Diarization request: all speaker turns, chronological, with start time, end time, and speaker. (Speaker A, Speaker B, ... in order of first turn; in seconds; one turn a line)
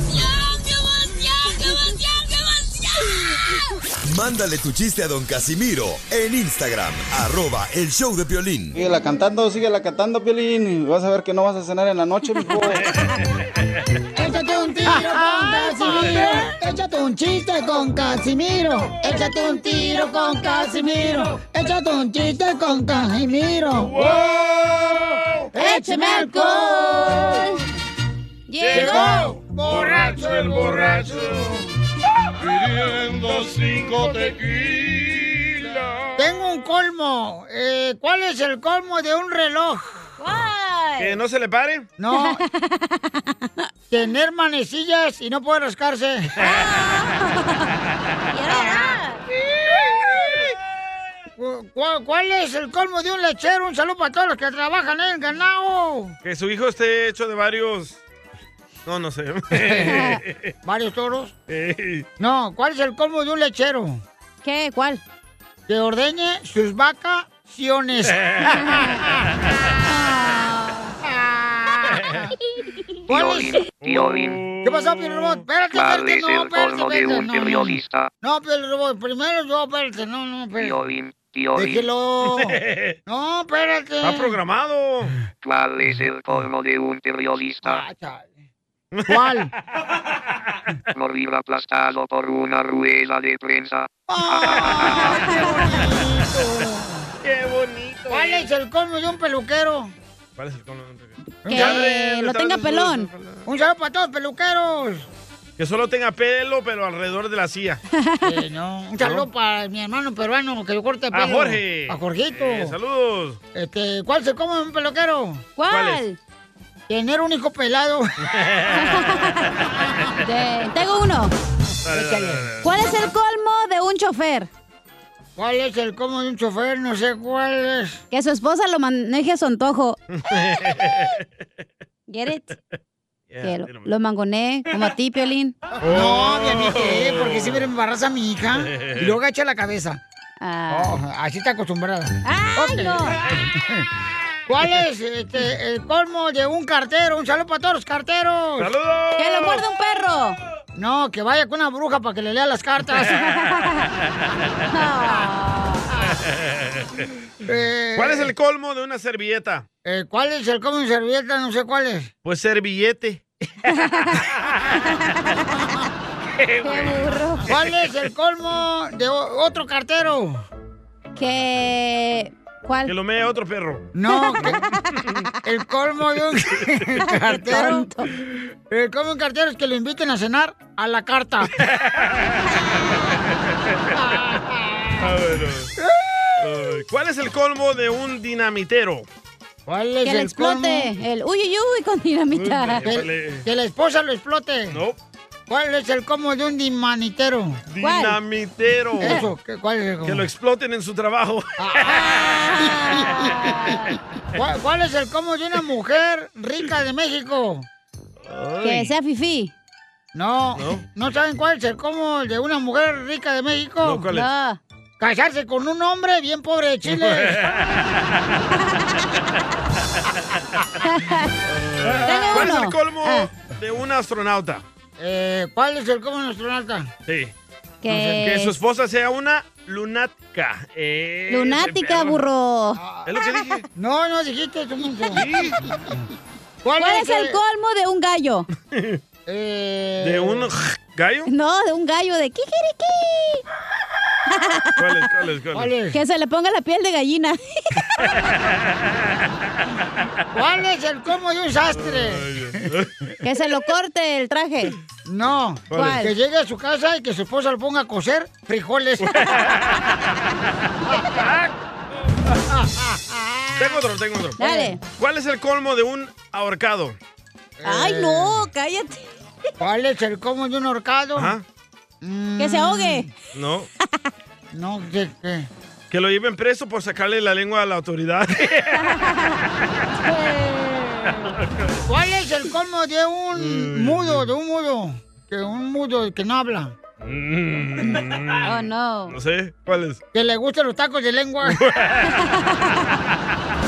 Speaker A: 4.1-8.8
Speaker B: 8.8-12.9
Speaker C: 14.2-24.4
Speaker D: 14.4-16.5
Speaker D: 19.0-21.1
Speaker E: 23.8-25.4
Speaker C: 25.5-27.5
Speaker D: 25.6-27.6
Speaker D: 28.5-29.4
Speaker E: 28.6-31.6
Speaker C: 28.7-31.7
Speaker E: 32.6-36.1
Speaker C: 36.2-39.8
Speaker D: 40.2-41.2
Speaker E: 41.0-41.9
Speaker C: 42.0-42.4
Speaker D: 42.1-43.7
Speaker C: 43.9-46.4
Speaker D: 46.4-47.7
Speaker D: 48.3-49.2
Speaker C: 50.1-50.4
Speaker C: 51.4-56.2
Speaker E: 56.2-58.0
Speaker E: 58.9-60.5
Speaker C: 59.5-60.0
Speaker D: 59.9-60.2
Speaker C: 60.6-61.3
Speaker E: 61.5-62.1
Speaker C: 62.2-64.0
Speaker D: 64.4-65.0
Speaker C: 65.7-69.3
Speaker E: 68.2-68.5
Speaker D: 68.6-68.8
Speaker D: 69.8-70.9
Speaker C: 71.0-72.3
Speaker C: 73.1-73.6
Speaker F: 73.1-74.5
Speaker E: 73.8-75.4
Speaker C: 74.6-80.8
Speaker F: 75.7-78.1
Speaker F: 80.6-81.9
Speaker C: 81.5-84.4
Speaker E: 82.3-83.0
Speaker E: 84.0-85.1
Speaker F: 85.4-87.8
Speaker C: 87.6-88.4
Speaker E: 88.9-89.2
Speaker C: 89.1-89.5
Speaker F: 90.9-95.0
Speaker C: 94.1-97.1
Speaker E: 94.7-95.2
Speaker D: 95.0-95.8
Speaker E: 97.2-98.5
Speaker C: 98.1-99.9
Speaker E: 100.4-103.4
Speaker C: 101.5-101.9
Speaker D: 101.5-103.1
Speaker C: 103.5-105.1
Speaker E: 105.6-107.8
Speaker D: 108.0-108.4
Speaker C: 108.2-112.8
Speaker E: 109.0-109.3
Speaker E: 111.1-113.4
Speaker C: 113.5-115.5
Speaker D: 115.6-116.2
Speaker E: 115.7-116.0
Speaker C: 116.9-118.1
Speaker E: 118.3-119.7
Speaker D: 118.7-119.5
Speaker D: 120.2-121.3
Speaker E: 121.8-122.7
Speaker C: 121.9-122.5
Speaker D: 122.6-124.5
Speaker C: 125.4-128.0
Speaker D: 128.1-130.0
Speaker E: 130.1-131.2
Speaker D: 132.1-132.6
Speaker E: 133.3-133.9
Speaker D: 133.4-135.6
Speaker C: 135.8-140.0
Speaker E: 135.8-137.7
Speaker E: 138.6-139.2
Speaker D: 140.4-141.0
Speaker C: 140.7-143.9
Speaker D: 142.2-143.2
Speaker C: 144.5-148.8
Speaker E: 148.6-149.7
Speaker D: 149.2-150.4
Speaker C: 150.8-153.2
Speaker D: 153.1-153.9
Speaker D: 154.7-155.9
Speaker E: 156.2-157.0
Speaker C: 157.4-158.3
Speaker E: 158.0-159.7
Speaker C: 159.8-162.1
Speaker E: 162.2-163.3
Speaker D: 163.7-164.2
Speaker E: 164.2-164.8
Speaker D: 164.8-165.9
Speaker E: 166.3-167.9
Speaker D: 166.6-167.5
Speaker C: 167.5-170.4
Speaker D: 171.2-172.9
Speaker E: 172.9-173.9
Speaker C: 173.9-174.6
Speaker D: 174.1-175.0
Speaker C: 175.4-177.9
Speaker D: 177.0-178.1
Speaker C: 178.7-181.5
Speaker E: 181.6-184.0
Speaker C: 183.9-185.1
Speaker E: 185.0-185.7
Speaker C: 185.8-186.5
Speaker E: 186.4-189.1
Speaker C: 189.7-190.9
Speaker D: 190.0-193.0
Speaker E: 192.3-193.4
Speaker C: 192.9-194.8
Speaker E: 194.7-195.0
Speaker C: 195.5-197.6
Speaker E: 197.7-199.2
Speaker D: 197.8-198.2
Speaker C: 199.0-200.3
Speaker D: 199.0-199.3
Speaker E: 200.0-202.3
Speaker C: 201.6-203.8
Speaker D: 201.8-203.9
Speaker C: 204.3-207.7
Speaker E: 208.2-208.9
Speaker D: 208.6-209.5
Speaker C: 210.1-214.1
Speaker E: 210.6-210.8
Speaker E: 213.8-214.3
Speaker D: 214.1-214.6
Speaker C: 215.0-217.4
Speaker E: 216.9-218.2
Speaker D: 220.8-221.3
Speaker E: 221.5-224.7
Speaker D: 222.0-223.3
Speaker C: 225.0-226.9
Speaker E: 227.1-227.3
Speaker D: 227.8-228.6
Speaker C: 227.9-228.3
Speaker E: 228.2-232.3
Speaker D: 231.3-232.8
Speaker C: 232.8-233.2
Speaker E: 233.1-233.7
Speaker C: 233.8-236.1
Speaker E: 235.1-235.6
Speaker C: 236.6-237.4
Speaker D: 236.8-238.5
Speaker E: 238.7-239.0
Speaker C: 239.3-240.5
Speaker E: 240.0-241.3
Speaker D: 241.3-243.4
Speaker D: 244.3-244.9
Speaker E: 244.8-245.7
Speaker C: 245.5-246.0
Speaker D: 245.9-247.8
Speaker E: 248.0-249.3
Speaker C: 250.3-252.6
Speaker E: 251.7-252.9
Speaker D: 253.2-254.8
Speaker C: 255.1-259.2
Speaker E: 255.7-256.1
Speaker D: 255.7-256.1
Speaker E: 259.1-259.8
Speaker C: 262.5-263.8
Speaker E: 263.6-267.0
Speaker D: 264.4-264.8
Speaker C: 264.4-264.7
Speaker C: 267.6-268.5
Speaker D: 267.6-269.0
Speaker C: 269.6-271.4
Speaker E: 271.2-271.4
Speaker C: 272.0-273.1
Speaker D: 272.4-273.1
Speaker E: 273.3-273.7
Speaker C: 274.5-275.5
Speaker E: 275.9-279.0
Speaker D: 278.9-279.3
Speaker D: 280.1-281.2
Speaker E: 281.4-281.8
Speaker C: 281.9-286.8
Speaker E: 283.3-284.3
Speaker E: 287.0-290.0
Speaker D: 288.4-289.2
Speaker C: 290.1-291.6
Speaker E: 291.4-292.1
Speaker D: 292.2-292.7